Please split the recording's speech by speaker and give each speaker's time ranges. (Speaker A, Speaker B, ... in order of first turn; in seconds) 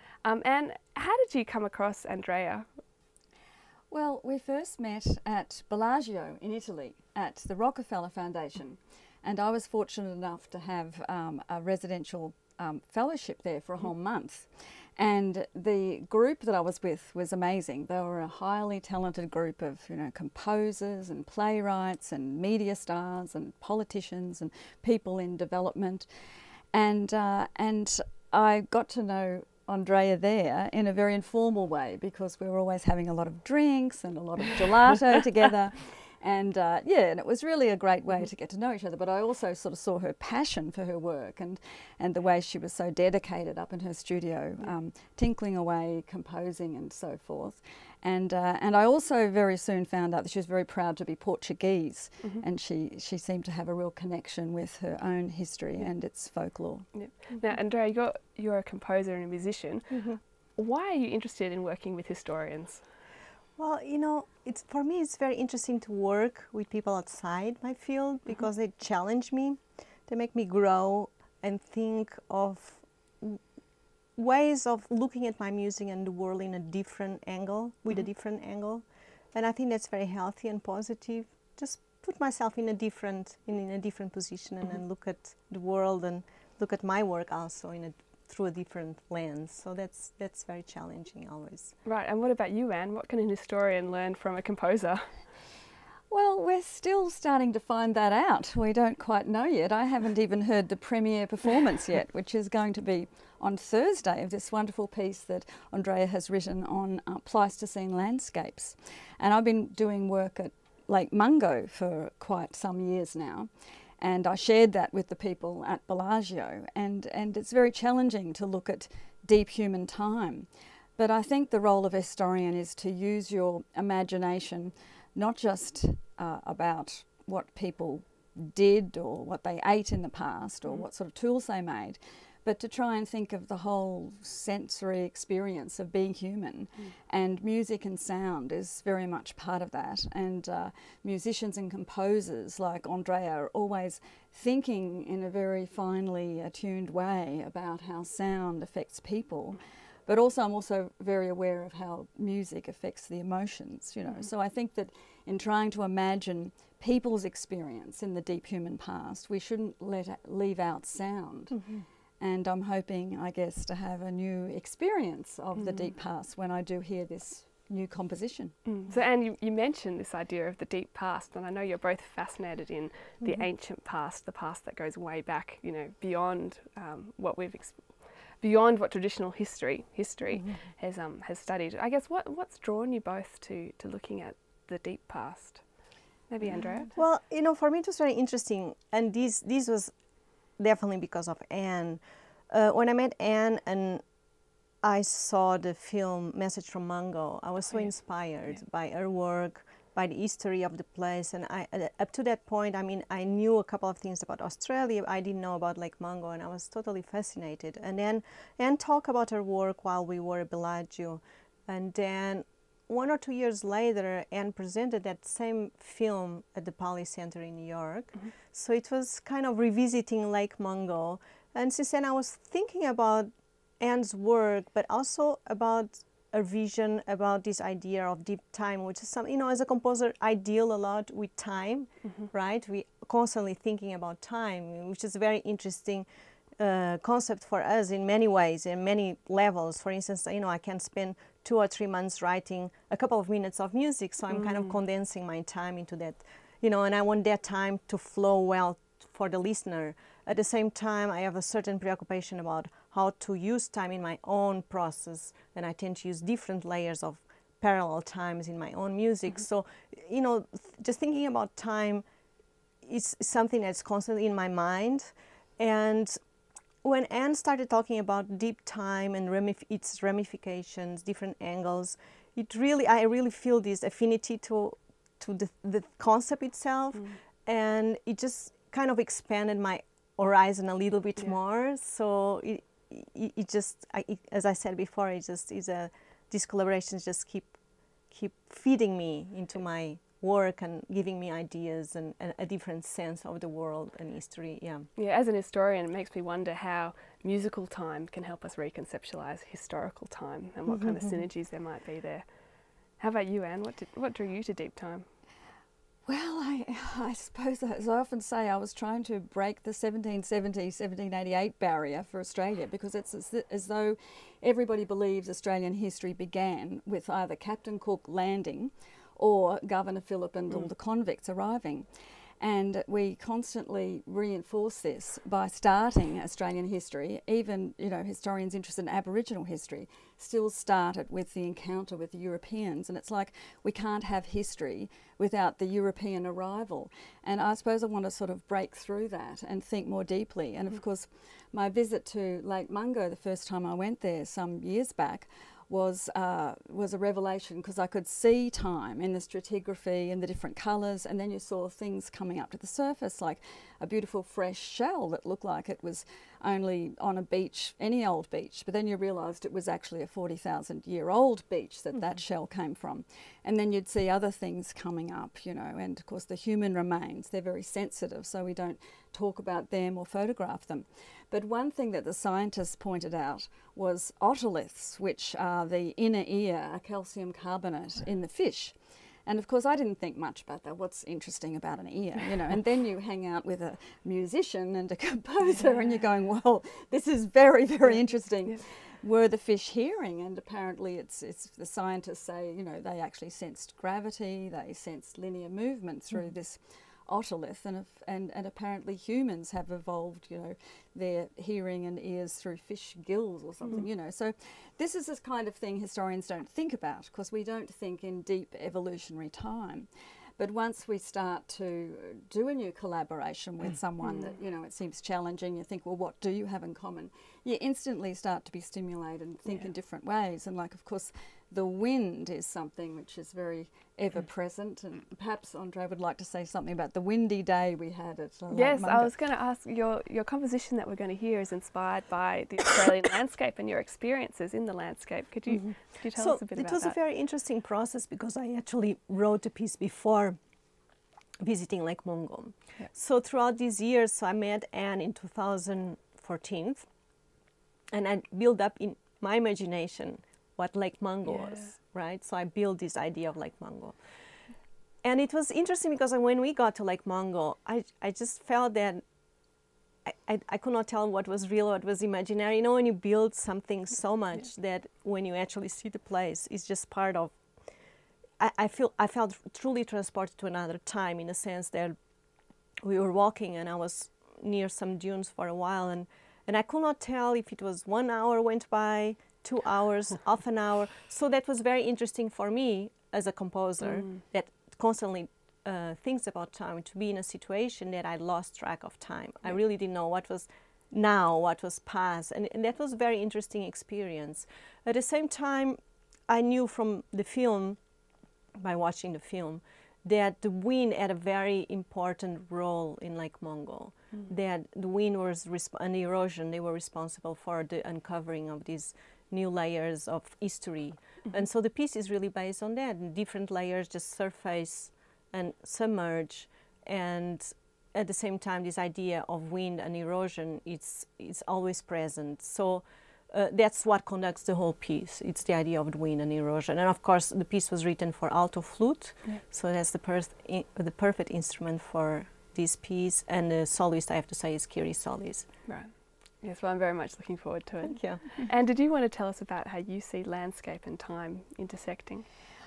Speaker A: 0.2-2.8, 52.2-52.5, 56.9-62.9, 91.8-95.3, 154.1-154.3, 165.6-166.0, 168.7-186.9, 197.7-198.6, 232.0-232.3, 244.3-244.8, 276.9-277.2, 294.9-305.1, 361.9-362.2, 387.9-388.6, 403.6-403.9, 414.0-414.4, 428.5-437.0, 451.2-451.7, 483.8-484.2, 535.7-542.2
Speaker B: 3.9-56.9, 96.1-168.6, 306.1-321.9, 322.4-429.2
Speaker C: 57.3-57.6, 59.9-60.2, 63.6-73.5, 74.1-91.8, 161.5-161.8, 173.2-173.5, 180.3-180.6, 186.4-262.1, 262.8-266.3, 266.8-294.9, 300.7-301.2, 435.5-440.4, 441.4-446.9, 447.9-472.0, 472.8-497.8, 498.5-535.7, 537.9-538.3